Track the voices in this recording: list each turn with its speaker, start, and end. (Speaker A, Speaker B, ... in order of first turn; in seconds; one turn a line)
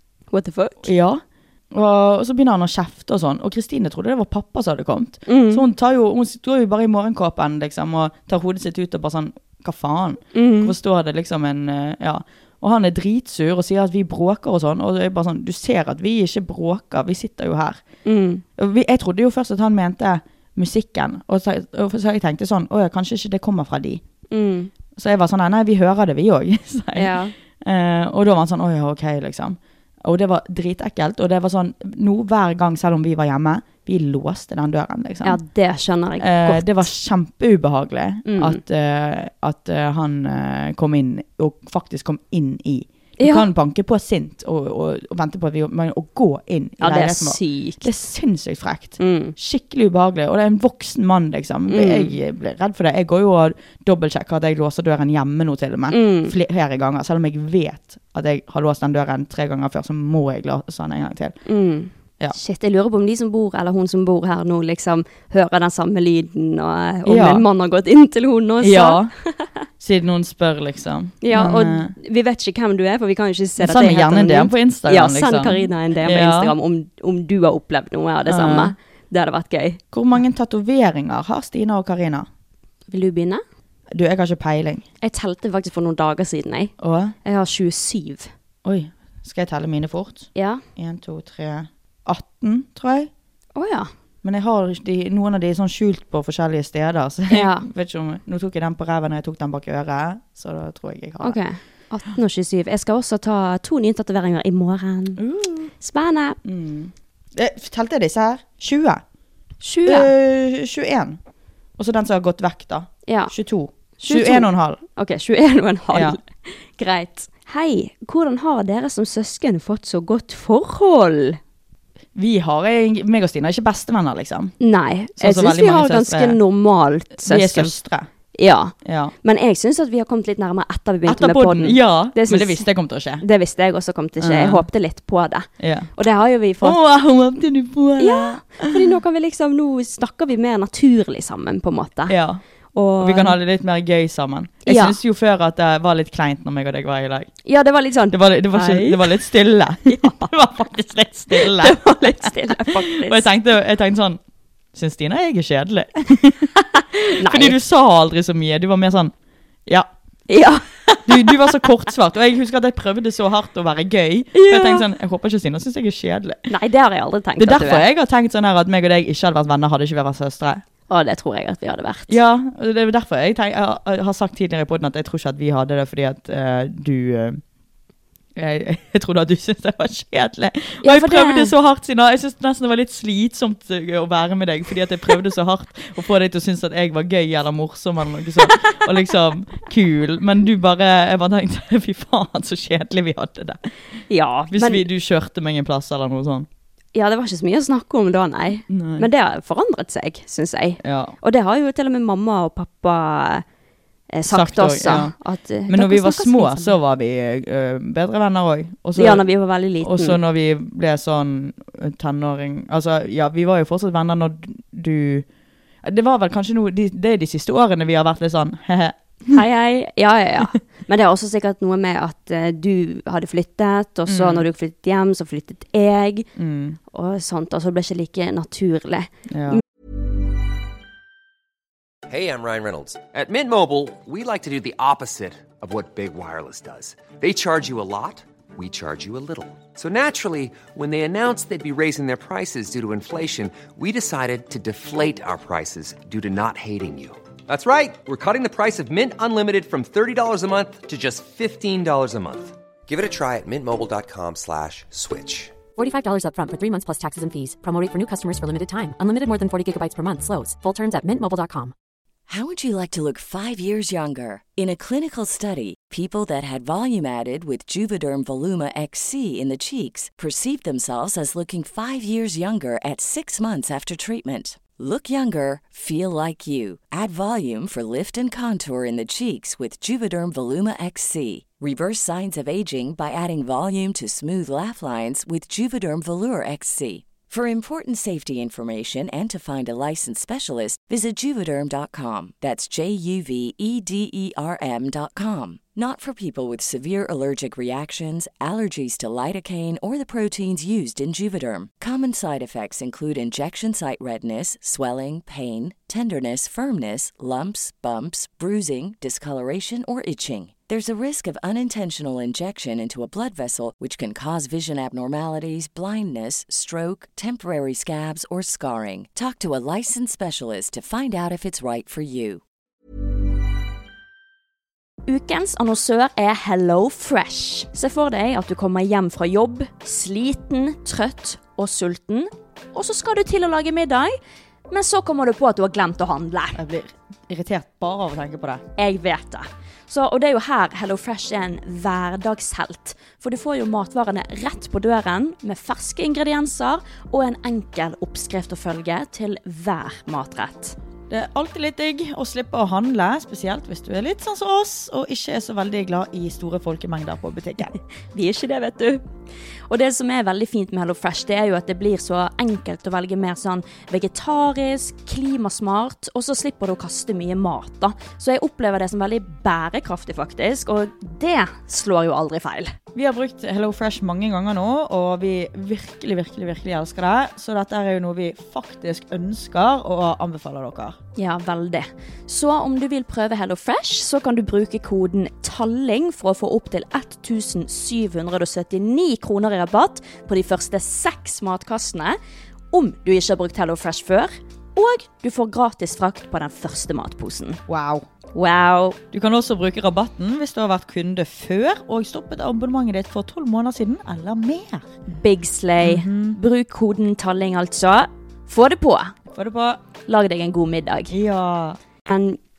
Speaker A: 0.3-0.9
Speaker B: 0.8-17.8
Speaker A: 5.3-5.7
Speaker A: 10.3-10.8
Speaker A: 18.1-18.4
Speaker B: 18.6-24.0
Speaker A: 24.3-24.7
Speaker B: 25.0-35.4
Speaker A: 26.9-27.3
Speaker A: 35.2-36.9
Speaker B: 36.2-61.4
Speaker A: 38.2-38.6
Speaker A: 43.2-43.5
Speaker A: 46.8-47.9
Speaker A: 49.0-49.4
Speaker A: 51.7-52.1
Speaker A: 55.9-56.4
Speaker A: 61.5-69.4
Speaker B: 67.0-67.5
Speaker B: 68.6-69.1
Speaker B: 69.8-71.9
Speaker A: 71.2-79.8
Speaker B: 73.6-76.5
Speaker B: 78.3-78.8
Speaker B: 79.9-82.3
Speaker A: 82.9-83.4
Speaker B: 83.9-84.8
Speaker A: 85.0-86.7
Speaker B: 86.8-87.2
Speaker A: 87.2-88.3
Speaker B: 88.6-93.1
Speaker A: 90.3-90.6
Speaker A: 93.6-93.9
Speaker B: 94.2-101.4
Speaker A: 97.3-97.7
Speaker A: 101.2-105.2
Speaker B: 105.2-105.7
Speaker A: 105.8-106.4
Speaker B: 106.4-109.0
Speaker A: 109.6-110.1
Speaker B: 109.9-111.2
Speaker B: 111.8-114.8
Speaker A: 113.1-113.3
Speaker A: 114.0-121.4
Speaker B: 115.9-116.2
Speaker B: 122.2-124.5
Speaker A: 124.6-127.8
Speaker B: 125.2-126.4
Speaker B: 127.2-128.1
Speaker A: 128.3-132.7
Speaker B: 128.8-129.1
Speaker B: 131.1-133.2
Speaker A: 133.2-136.8
Speaker B: 134.2-134.7
Speaker B: 135.6-135.9
Speaker B: 136.6-138.8
Speaker A: 138.0-142.2
Speaker B: 142.1-142.4
Speaker A: 142.7-143.4
Speaker B: 143.0-147.3
Speaker A: 144.7-145.0
Speaker A: 147.4-149.2
Speaker B: 148.1-154.2
Speaker A: 149.9-150.3
Speaker A: 151.3-153.3
Speaker B: 154.7-159.1
Speaker A: 157.2-157.6
Speaker A: 160.3-161.7
Speaker B: 161.1-166.5
Speaker A: 164.3-164.9
Speaker A: 166.5-167.9
Speaker B: 167.4-170.6
Speaker A: 170.9-172.2
Speaker B: 172.1-177.4
Speaker B: 178.4-193.6
Speaker A: 180.8-181.5
Speaker A: 188.4-189.1
Speaker A: 194.1-194.9
Speaker B: 194.5-196.5
Speaker A: 196.9-203.4
Speaker B: 198.7-199.1
Speaker B: 200.8-201.2
Speaker A: 204.1-206.8
Speaker B: 204.3-205.2
Speaker B: 205.7-209.2
Speaker A: 209.0-210.2
Speaker B: 209.8-215.3
Speaker B: 215.8-219.4
Speaker A: 219.3-226.3
Speaker B: 224.1-224.5
Speaker B: 226.4-226.8
Speaker A: 226.9-229.6
Speaker B: 229.3-229.6
Speaker C: 232.1-255.6
Speaker D: 255.8-261.7
Speaker E: 262.3-322.4
Speaker A: 325.1-334.2
Speaker A: 334.7-336.6
Speaker B: 336.6-338.6
Speaker A: 338.8-350.8
Speaker B: 351.1-357.8
Speaker A: 358.1-359.0
Speaker A: 359.7-372.8
Speaker B: 372.9-381.0
Speaker A: 381.2-392.2
Speaker A: 392.7-397.6
Speaker B: 397.7-398.1
Speaker A: 398.3-399.0
Speaker B: 399.1-404.9
Speaker A: 405.1-409.1
Speaker B: 405.8-406.4
Speaker B: 409.3-409.8
Speaker A: 410.1-411.1
Speaker B: 411.1-411.8
Speaker A: 412.1-412.4